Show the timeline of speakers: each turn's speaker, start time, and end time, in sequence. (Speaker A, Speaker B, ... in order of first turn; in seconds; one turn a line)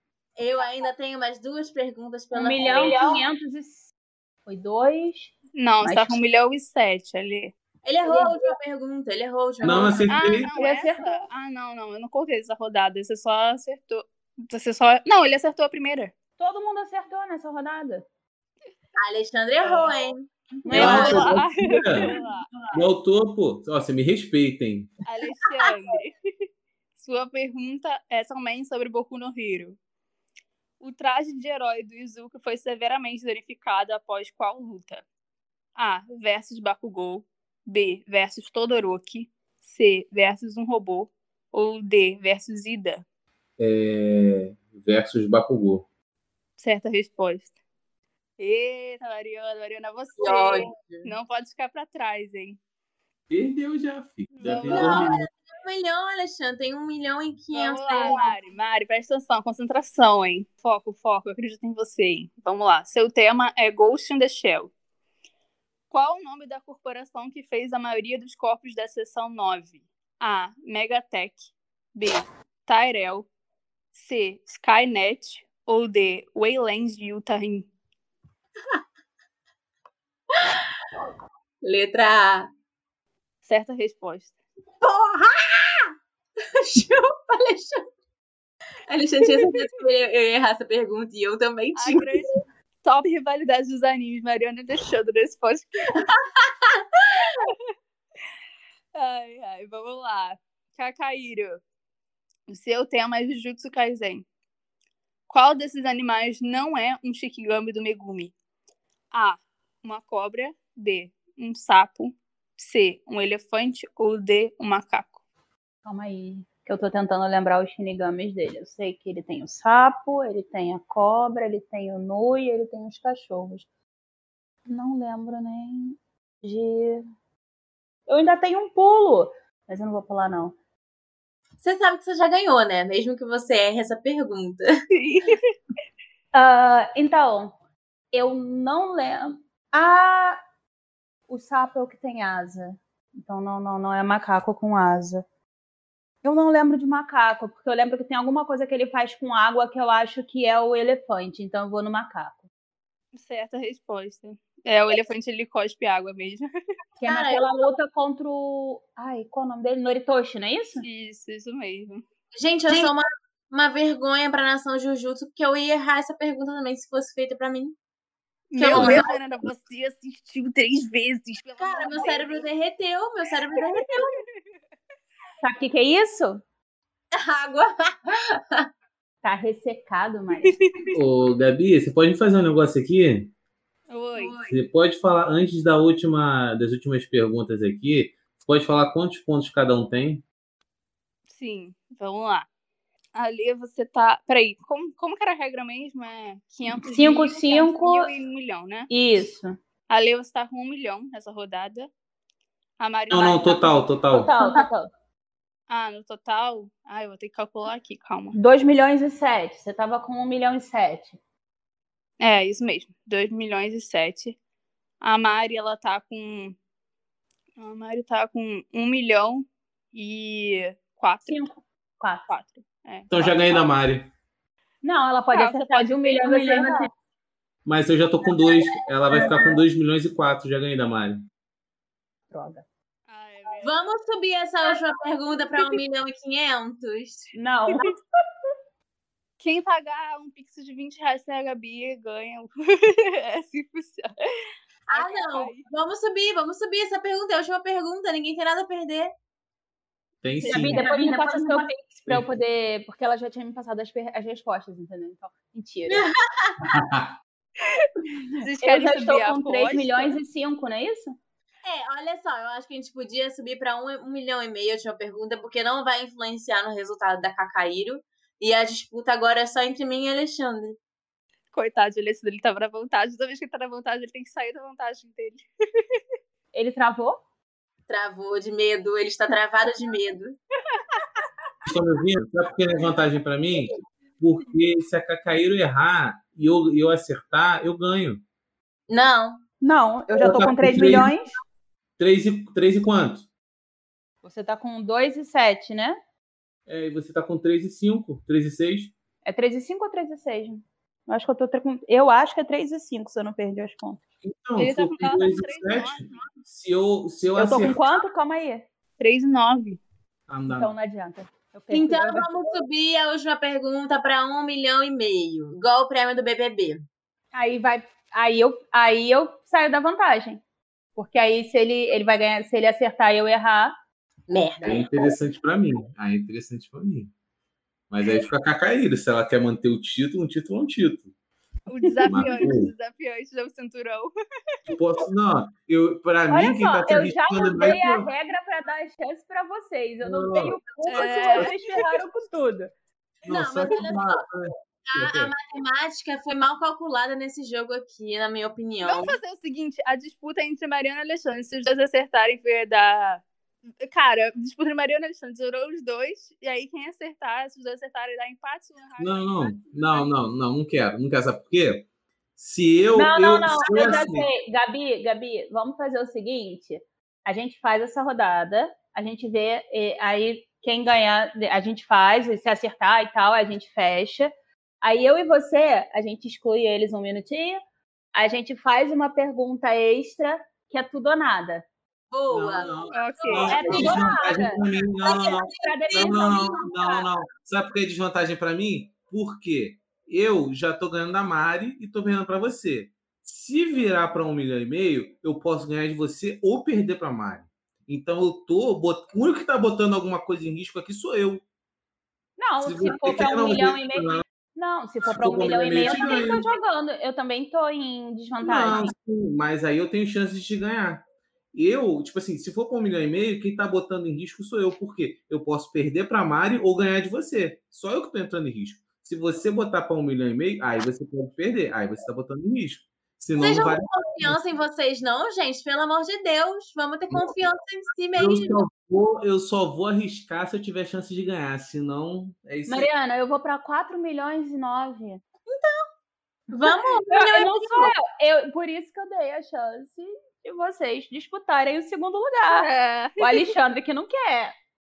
Speaker A: 0.4-3.2
Speaker B: 2.3-3.9
Speaker B: 4.5-6.2
Speaker C: 5.5-7.5
Speaker A: 7.8-10.1
Speaker B: 8.0-8.5
Speaker D: 9.6-10.5
Speaker C: 10.1-16.1
Speaker B: 10.5-11.2
Speaker B: 16.4-18.0
Speaker A: 19.0-21.2
Speaker C: 19.6-19.9
Speaker B: 20.6-21.4
Speaker C: 20.7-22.5
Speaker D: 20.7-22.1
Speaker B: 22.1-22.8
Speaker D: 22.7-24.9
Speaker C: 25.1-26.1
Speaker C: 26.9-29.8
Speaker C: 30.8-35.0
Speaker C: 35.8-43.0
Speaker D: 43.6-45.9
Speaker C: 46.6-47.5
Speaker C: 48.4-52.6
Speaker A: 50.2-51.1
Speaker D: 53.3-55.3
Speaker C: 54.3-55.2
Speaker A: 54.7-58.3
Speaker C: 57.5-64.7
Speaker C: 65.9-73.3
Speaker C: 73.9-77.7
Speaker A: 81.6-82.5
Speaker C: 83.4-84.4
Speaker A: 84.8-85.9
Speaker A: 86.5-87.8
Speaker A: 88.9-92.2
Speaker C: 91.8-96.0
Speaker A: 96.1-96.8
Speaker C: 97.2-97.6
Speaker C: 98.9-101.6
Speaker C: 102.5-104.3
Speaker C: 105.3-108.3
Speaker C: 109.1-115.2
Speaker B: 115.8-123.7
Speaker B: 124.7-127.0
Speaker B: 128.1-130.6
Speaker A: 131.6-134.7
Speaker C: 134.9-135.5
Speaker B: 136.3-137.5
Speaker B: 138.1-140.4
Speaker B: 141.3-145.2
Speaker B: 146.2-152.4
Speaker C: 153.1-156.5
Speaker B: 157.0-160.8
Speaker A: 157.1-157.6
Speaker C: 160.8-162.0
Speaker A: 162.3-167.8
Speaker C: 168.5-172.5
Speaker A: 168.6-169.1
Speaker D: 168.7-169.1
Speaker A: 171.6-174.2
Speaker C: 173.6-174.0
Speaker B: 175.4-176.4
Speaker A: 177.1-178.7
Speaker B: 179.2-180.6
Speaker C: 180.4-180.9
Speaker D: 180.9-183.3
Speaker C: 183.9-184.4
Speaker A: 184.2-184.6
Speaker D: 184.5-190.2
Speaker C: 191.3-192.5
Speaker C: 193.2-198.9
Speaker B: 196.8-198.1
Speaker B: 198.9-199.6
Speaker C: 199.9-201.9
Speaker C: 202.8-203.8
Speaker D: 203.1-204.3
Speaker B: 204.1-204.9
Speaker C: 205.7-208.4
Speaker B: 208.3-211.2
Speaker C: 212.2-214.4
Speaker C: 215.0-216.6
Speaker C: 217.6-221.4
Speaker B: 221.3-222.3
Speaker C: 222.3-223.1
Speaker D: 223.1-224.1
Speaker B: 224.8-226.9
Speaker C: 225.3-226.8
Speaker D: 227.7-231.2
Speaker B: 229.1-229.5
Speaker B: 232.3-232.6
Speaker C: 233.1-233.7
Speaker A: 233.6-237.3
Speaker B: 237.3-238.0
Speaker C: 239.4-244.1
Speaker A: 244.9-249.1
Speaker C: 244.9-245.7
Speaker D: 250.2-250.8
Speaker C: 250.4-250.9
Speaker B: 250.4-256.1
Speaker A: 250.8-251.7
Speaker A: 255.9-256.7
Speaker D: 256.7-257.1
Speaker C: 257.6-260.2
Speaker B: 258.6-261.1
Speaker A: 261.6-270.8
Speaker C: 271.5-275.4
Speaker B: 276.5-277.2
Speaker A: 277.9-280.4
Speaker D: 281.6-288.2
Speaker A: 288.9-289.4
Speaker B: 289.6-291.3
Speaker D: 290.2-291.1
Speaker D: 292.0-293.3
Speaker B: 294.2-296.0
Speaker D: 296.7-298.9
Speaker B: 299.2-304.0
Speaker D: 304.2-307.8
Speaker C: 304.6-306.3
Speaker B: 307.4-308.6
Speaker C: 309.0-309.8
Speaker D: 310.3-310.7
Speaker B: 310.5-312.3
Speaker A: 311.7-316.9
Speaker B: 317.3-320.4
Speaker B: 320.9-323.7
Speaker A: 324.3-324.9
Speaker D: 324.6-327.1
Speaker D: 327.9-331.1
Speaker C: 331.7-334.1
Speaker B: 332.0-332.3
Speaker D: 332.1-332.7
Speaker D: 334.7-338.1
Speaker B: 336.3-342.7
Speaker D: 340.0-341.6
Speaker C: 340.9-341.6
Speaker A: 343.2-344.2
Speaker D: 343.2-345.3
Speaker A: 344.9-349.2
Speaker C: 348.8-353.2
Speaker C: 353.8-360.1
Speaker D: 359.0-364.3
Speaker B: 362.9-374.3
Speaker B: 374.8-377.6
Speaker B: 378.1-381.6
Speaker A: 382.1-384.3
Speaker D: 382.3-401.4
Speaker C: 382.9-383.6
Speaker B: 383.5-387.1
Speaker A: 385.0-386.5
Speaker B: 402.4-408.9
Speaker D: 402.6-404.2
Speaker D: 405.1-406.4
Speaker D: 408.4-424.4
Speaker A: 423.4-428.6
Speaker D: 428.1-432.9
Speaker B: 432.7-435.2
Speaker A: 435.5-435.9
Speaker A: 436.5-437.9
Speaker B: 437.1-444.5
Speaker C: 442.5-443.5